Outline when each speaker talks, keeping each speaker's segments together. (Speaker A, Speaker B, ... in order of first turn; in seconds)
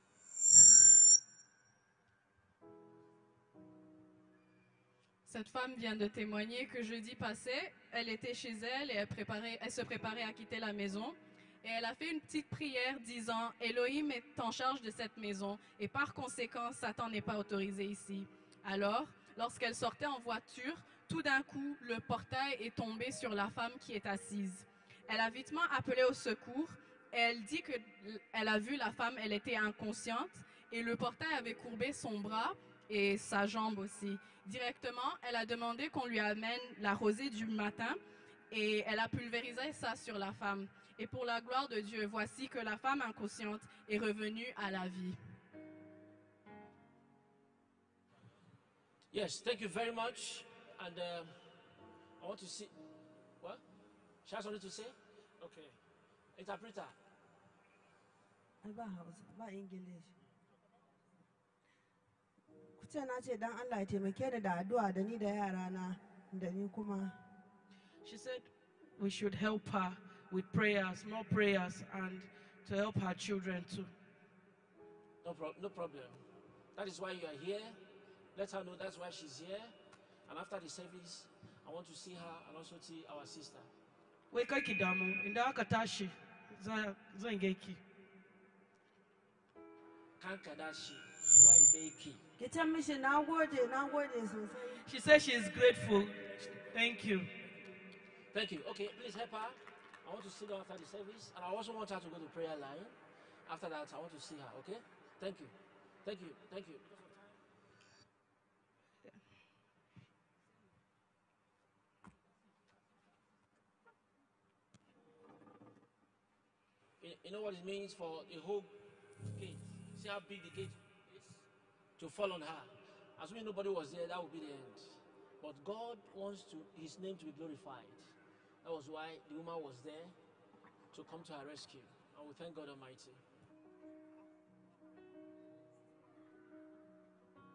Speaker A: 5.2-38.0, 38.5-45.2
Speaker B: 49.1-51.3, 52.2-52.7, 54.2-55.8, 56.4-57.0, 75.2-76.2, 76.8-77.8, 78.3-79.7, 80.3-83.7, 90.2-92.2, 98.3-106.9, 117.0-118.7, 119.3-121.3, 122.0-124.8, 125.4-128.0, 128.6-130.2, 130.9-133.2
Speaker C: 58.6-60.1, 62.8-67.2, 92.4-94.8
Speaker D: 68.0-73.9, 84.3-87.8, 94.8-97.3